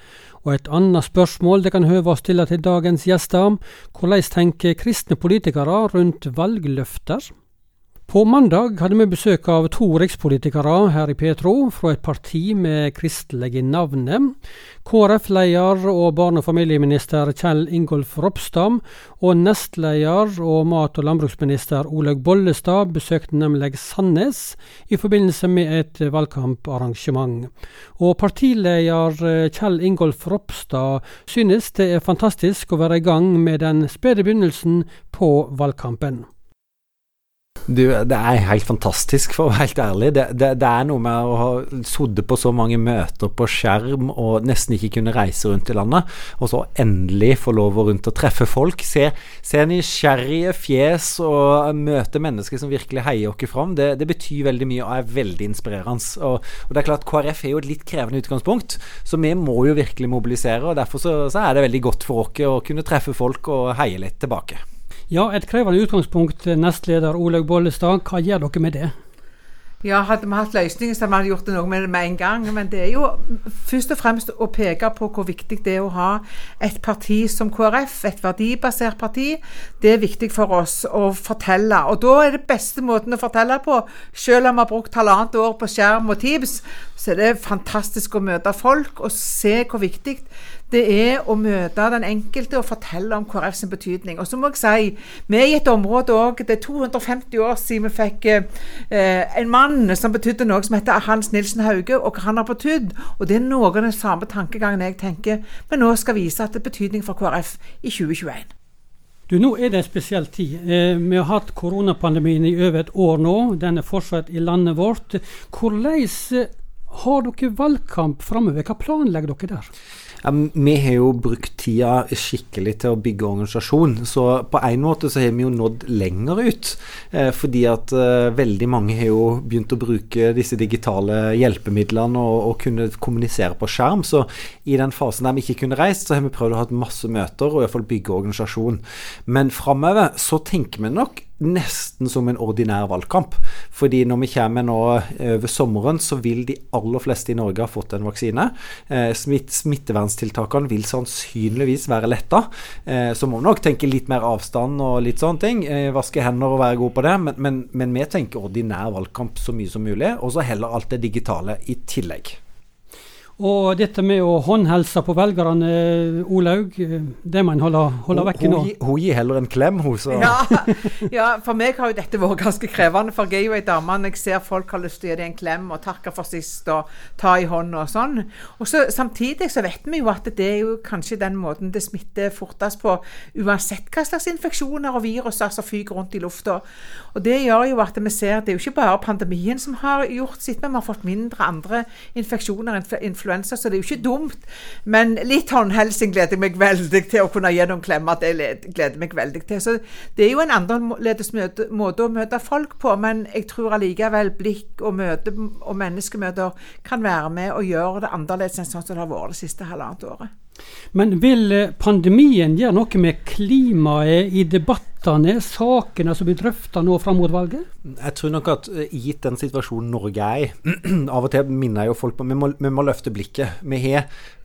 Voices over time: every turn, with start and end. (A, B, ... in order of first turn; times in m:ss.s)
0:00.4-0:07.3 A
0:08.1-0:36.3 A
0:37.7-1:04.6 B
1:05.1-1:08.9 A
1:09.8-1:48.5 C
1:49.3-1:59.7 A
2:00.2-2:42.4 B
2:43.4-2:48.7 A
2:48.1-2:50.4 B
2:50.2-3:06.6 C
3:07.1-3:30.3 C
3:30.9-3:37.6 A
3:37.9-3:44.0 B